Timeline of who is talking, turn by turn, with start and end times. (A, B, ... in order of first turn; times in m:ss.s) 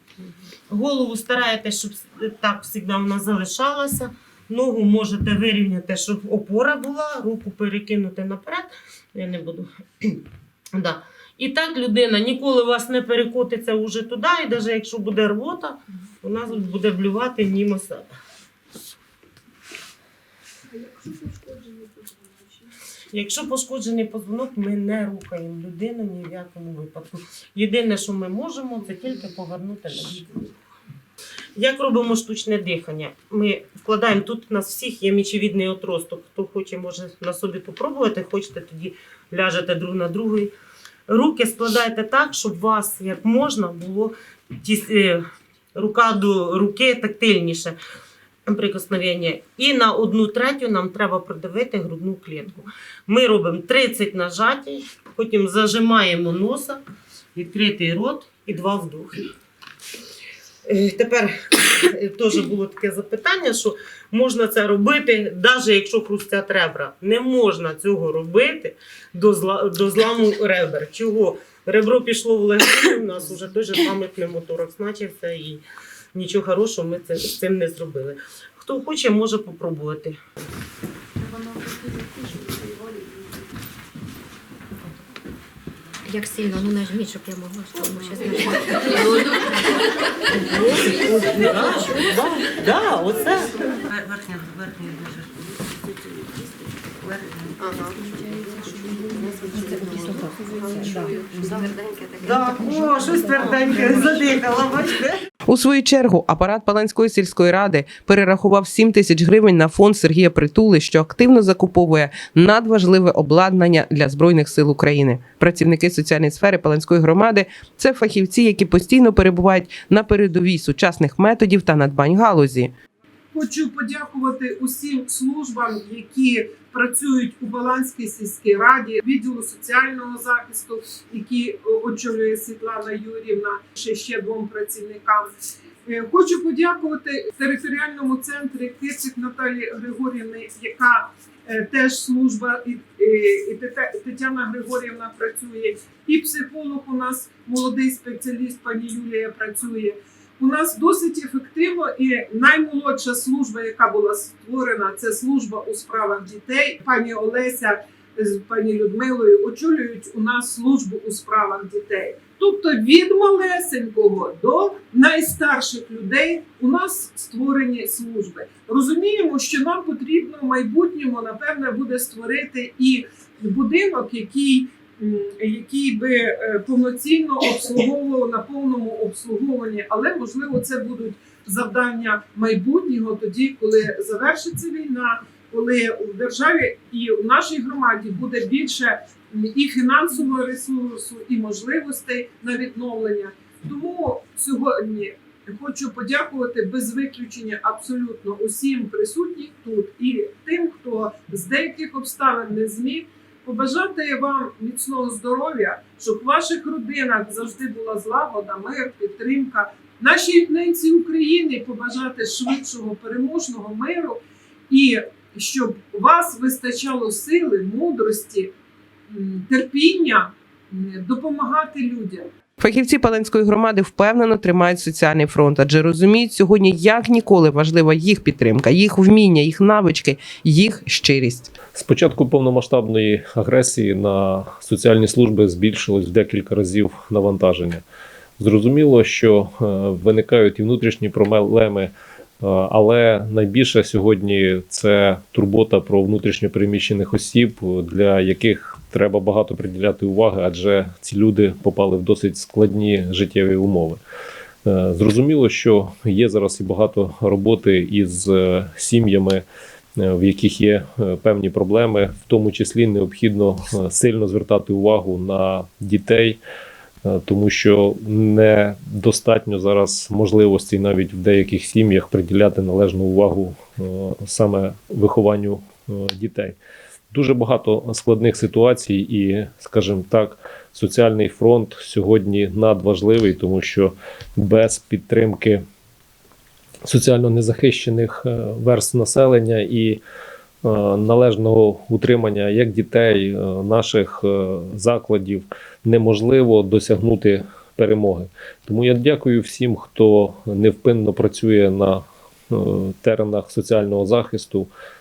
0:00.7-0:10.2 A
0:10.8-0:18.0 A
0:21.2-0:21.5 B
0:23.1-0:30.5 A
0:31.6-0:40.5 A
0:41.1-0:45.2 A
0:45.7-0:47.8 A
0:48.5-0:56.8 A
0:57.3-0:59.2 A
1:00.6-1:15.6 A
1:16.1-1:20.2 A
1:26.1-1:29.3 C
1:30.6-1:38.0 A
1:31.3-1:32.1 C
1:38.6-1:45.1 A
1:39.9-1:44.0 C
1:45.5-2:02.7 D
2:03.3-2:15.3 B
2:15.9-3:34.2 B
3:34.7-3:38.5 B
3:39.1-3:42.3 B
3:42.6-3:51.5 D
3:51.7-3:57.8 E
3:58.4-4:14.0 E
4:14.6-4:19.4 E
4:20.0-4:26.4 E
4:27.0-4:36.6 E
4:37.1-4:45.6 E
4:46.8-4:50.0 E
4:50.6-5:04.7 E